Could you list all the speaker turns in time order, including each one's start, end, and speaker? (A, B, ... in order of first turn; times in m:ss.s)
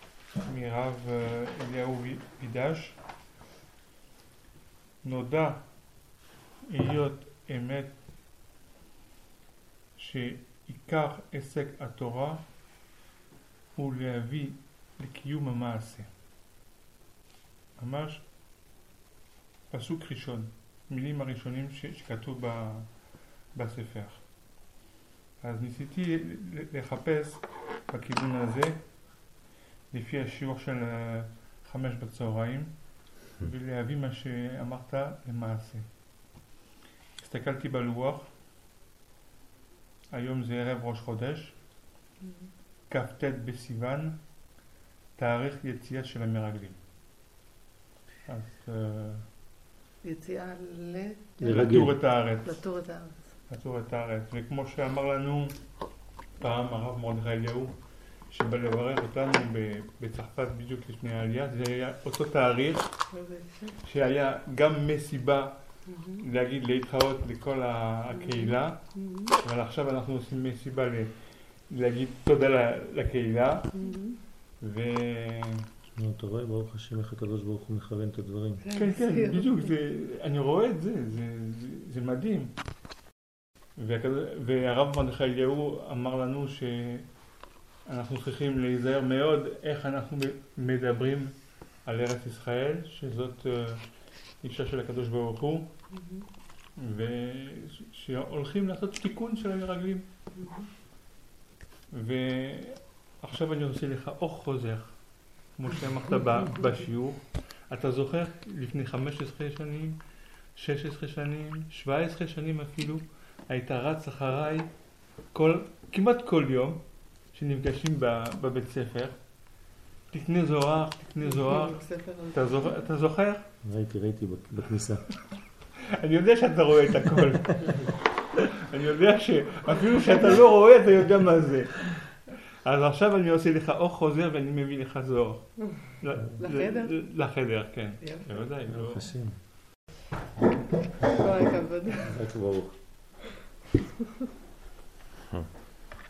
0:00.4-0:03.0 A
0:05.0-0:05.6 A
0:06.7-0:07.9 A
0:10.0-0:12.4 A
0:13.7-0:16.1 A
0:17.8-0:18.2 A
0:19.7-0:22.9 A
0:23.5-0:24.2 A
0:25.4-0:28.8 A
0:29.9-0:32.7 A
0:33.4-0:35.8 A
0:37.2-0:38.3 A
0:40.1-0:41.6 A
0:42.9-0:44.2 A
0:45.2-0:46.8 A
0:48.2-0:49.3 A
0:50.0-0:51.4 B
0:51.4-0:52.6 A
0:51.4-0:52.0 C
0:52.4-0:53.3 B
0:53.5-0:55.6 A
0:56.4-0:57.8 A
0:58.3-1:02.9 A
1:03.1-1:03.8 B
1:03.8-1:05.6 A
1:05.9-1:06.2 B
1:06.2-1:11.2 A
1:08.1-1:09.4 B
1:11.7-1:13.8 A
1:13.7-1:14.2 B
1:14.6-1:15.7 A
1:15.9-1:18.6 C
1:18.6-1:19.8 B
1:18.8-1:22.5 A
1:23.8-1:27.1 A
1:27.8-1:33.9 A
1:34.4-1:35.7 A
1:35.9-1:36.2 B
1:36.8-1:40.0 A
1:40.3-1:40.7 B
1:41.9-1:44.9 A
1:45.6-1:50.0 A
1:50.6-1:54.7 A
1:55.3-1:56.8 A
1:57.3-1:59.2 A
2:00.1-2:03.5 A
2:01.2-2:02.8 B
2:03.6-2:05.1 C
2:05.8-2:19.1 A
2:15.6-2:16.9 B
2:18.0-2:18.3 B
2:18.7-2:19.4 C
2:20.9-2:22.1 B
2:21.9-2:22.8 C